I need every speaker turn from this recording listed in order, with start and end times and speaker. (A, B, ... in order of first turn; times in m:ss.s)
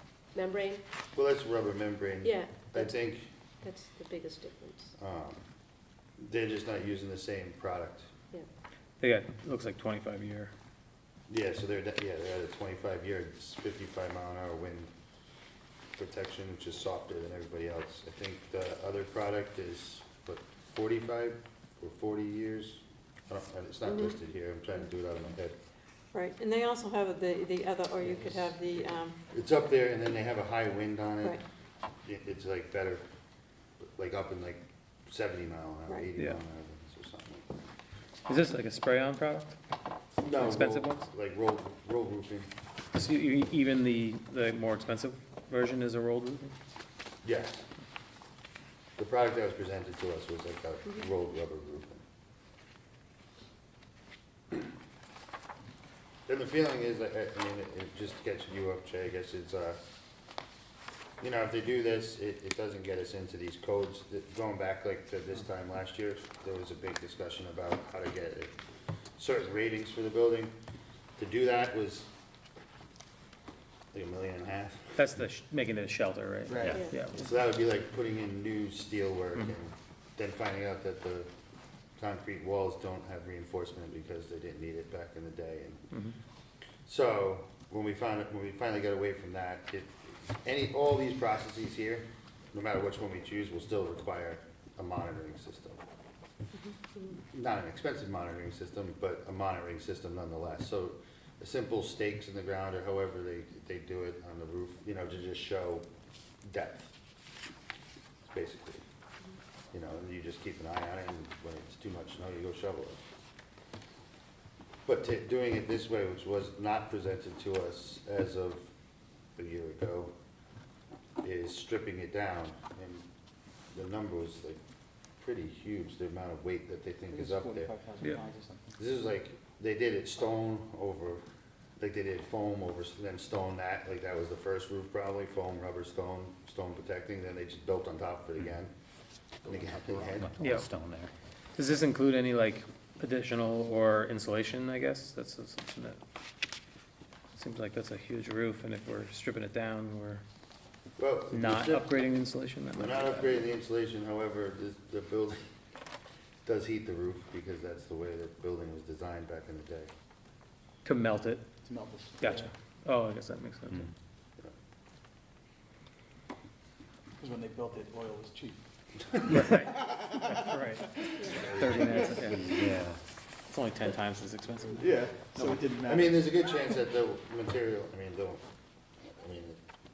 0:00.3-0:00.8 A
0:01.1-0:03.3 B
0:02.2-0:03.0 A
0:03.6-0:04.9 A
0:05.0-0:05.4 B
0:06.2-0:08.1 B
0:09.0-0:10.5 C
0:11.3-0:14.9 B
0:16.0-0:25.6 B
0:23.8-0:24.2 A
0:26.1-0:29.2 D
0:29.3-0:31.4 B
0:32.0-0:33.0 B
0:33.8-0:37.5 B
0:36.2-0:36.4 C
0:38.3-0:39.5 C
0:40.2-0:42.5 B
0:40.3-0:41.0 C
0:42.9-0:46.5 C
0:47.2-0:47.6 B
0:49.0-0:52.0 B
0:56.3-0:59.8 B
1:01.2-1:08.5 B
1:09.2-1:10.5 B
1:11.2-1:12.1 B
1:13.9-1:15.0 B
1:15.0-1:17.3 C
1:16.5-1:16.8 E
1:17.1-1:21.3 B
1:22.0-1:25.9 B
1:26.8-1:35.8 B
1:36.6-1:37.2 A
1:37.3-1:45.8 B
1:46.4-1:46.9 B
1:48.3-1:48.8 B
1:49.7-1:53.0 B
1:54.8-1:58.7 B
1:59.4-2:00.1 B
2:01.2-2:03.0 B
2:03.7-2:04.6 B
2:05.2-2:07.7 B
2:07.1-2:08.7 E
2:08.8-2:11.2 B
2:11.8-2:18.7 B
2:19.4-2:20.4 B
2:19.5-2:21.1 F
2:20.4-2:20.7 C
2:21.6-2:26.0 C
2:27.3-2:30.2 C
2:31.0-2:31.9 B
2:31.3-2:33.4 C
2:32.7-2:35.4 B
2:36.4-2:39.9 B
2:40.8-2:41.4 C
2:41.6-2:42.5 E
2:42.2-2:43.9 C
2:47.2-2:48.6 E
2:49.1-2:49.4 B
2:49.3-2:52.5 C
2:51.1-2:51.4 A
2:51.5-2:51.9 B
2:51.5-2:52.1 E
2:52.1-2:53.0 F
2:53.5-2:54.8 C
2:54.7-2:56.2 E
2:55.8-2:58.4 B
2:59.1-2:59.6 B